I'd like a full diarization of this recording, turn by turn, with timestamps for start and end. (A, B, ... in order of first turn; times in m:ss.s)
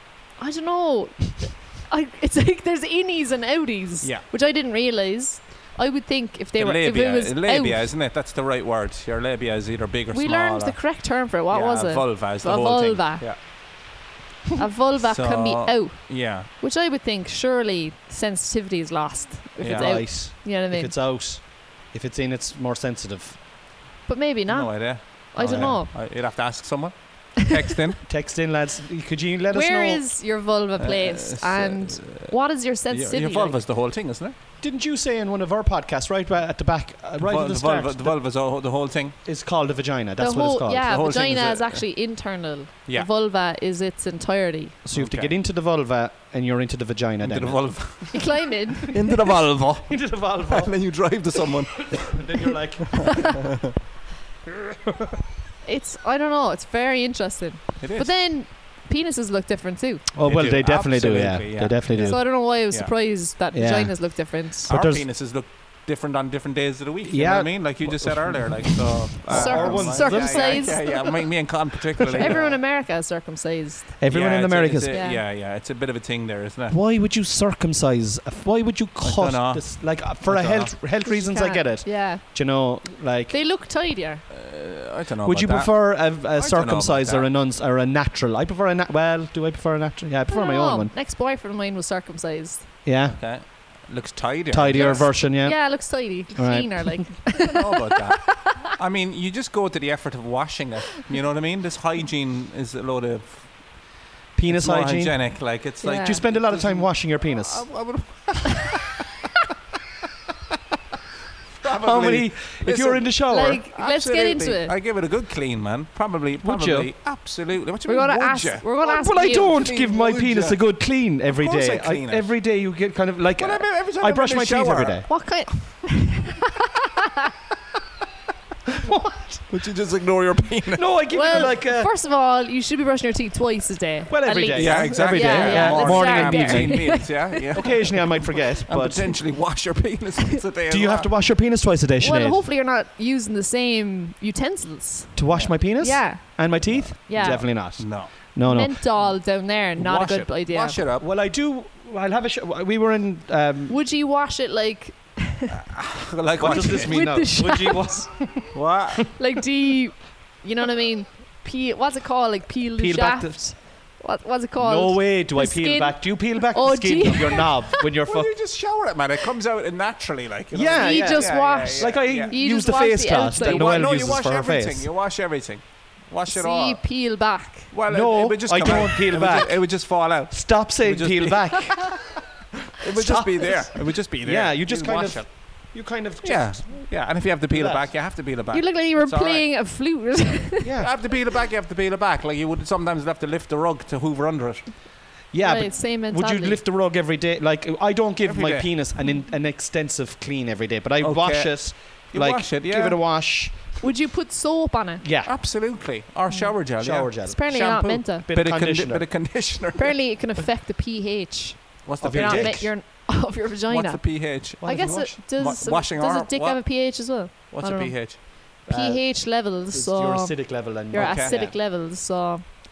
0:00.4-0:07.9 A
0:04.0-0:04.3 B
0:06.6-0:13.4 B
0:10.1-0:13.3 A
0:14.6-0:20.9 A
0:15.0-0:16.5 B
0:19.6-0:20.1 B
0:19.7-0:23.4 C
0:24.1-0:25.9 A
0:24.5-0:28.0 B
0:25.4-0:25.8 C
0:28.1-0:30.0 C
0:29.5-0:33.6 A
0:30.8-0:34.4 B
0:34.6-0:38.2 C
0:37.2-0:39.2 B
0:39.2-0:40.9 C
0:40.2-0:44.8 A
0:40.8-0:41.9 B
0:44.8-0:48.1 C
0:45.0-0:45.3 B
0:47.2-0:52.4 B
0:48.1-0:49.0 A
0:49.9-0:51.2 C
0:51.9-0:53.5 C
0:52.9-0:53.3 B
0:55.6-1:00.1 A
0:57.8-0:58.1 B
1:00.1-1:02.3 C
1:00.2-1:02.9 B
1:02.0-1:04.7 A
1:03.5-1:05.1 C
1:04.7-1:12.5 B
1:07.0-1:11.0 C
1:09.3-1:11.0 A
1:12.0-1:12.6 C
1:12.1-1:14.0 A
1:14.0-1:15.1 C
1:14.1-1:16.8 B
1:14.9-1:15.2 A
1:16.7-1:23.4 C
1:19.0-1:20.8 B
1:21.0-1:22.2 A
1:23.3-1:24.2 A
1:24.3-1:27.3 B
1:25.2-1:30.9 C
1:30.3-1:32.7 A
1:32.8-1:33.5 C
1:33.2-1:35.2 B
1:34.5-1:37.2 C
1:34.7-1:38.5 A
1:37.4-1:43.9 B
1:44.4-1:47.7 C
1:44.5-1:49.1 B
1:45.8-1:46.2 A
1:51.6-1:58.7 B
1:51.7-1:53.6 C
1:53.3-1:54.7 A
1:56.4-1:56.9 C
1:57.9-1:59.6 A
1:58.8-2:05.1 C
1:59.3-2:02.3 B
2:03.4-2:05.2 B
2:05.1-2:07.1 A
2:08.8-2:09.5 C
2:09.5-2:11.0 B
2:10.7-2:11.9 C
2:11.1-2:17.5 A
2:14.1-2:19.2 C
2:14.5-2:21.1 B
2:20.7-2:22.4 C
2:22.0-2:25.2 A
2:25.2-2:28.8 C
2:25.8-2:27.8 A
2:26.7-2:28.1 B
2:28.4-2:30.8 A
2:29.0-2:31.1 B
2:31.0-2:33.8 C
2:33.7-2:35.5 A
2:35.5-2:37.3 B
2:36.4-2:38.7 C
2:36.5-2:38.1 A
2:38.5-2:39.1 B
2:39.2-2:47.7 A
2:42.8-2:43.6 C
2:44.6-2:48.3 C
2:47.8-2:52.4 B
2:50.5-2:54.9 C
2:50.8-2:53.8 A
2:53.3-2:57.0 B
2:56.3-2:57.7 A
2:57.7-3:02.2 B
2:57.9-3:02.1 C
3:02.8-3:09.7 B
3:02.9-3:07.9 C
3:08.5-3:10.7 A
3:10.6-3:11.0 C
3:10.8-3:14.8 B
3:15.3-3:23.8 C
3:15.4-3:16.6 A
3:18.2-3:18.7 B
3:21.0-3:23.6 B
3:23.8-3:25.0 A
3:25.0-3:25.4 C
3:25.2-3:30.4 B
3:26.3-3:26.6 A
3:26.8-3:27.4 C
3:27.2-3:28.3 A
3:28.3-3:29.3 C
3:29.8-3:42.5 A
3:31.8-3:38.2 B
3:32.0-3:32.7 C
3:34.6-3:35.2 C
3:38.7-3:41.6 C
3:40.9-3:41.4 B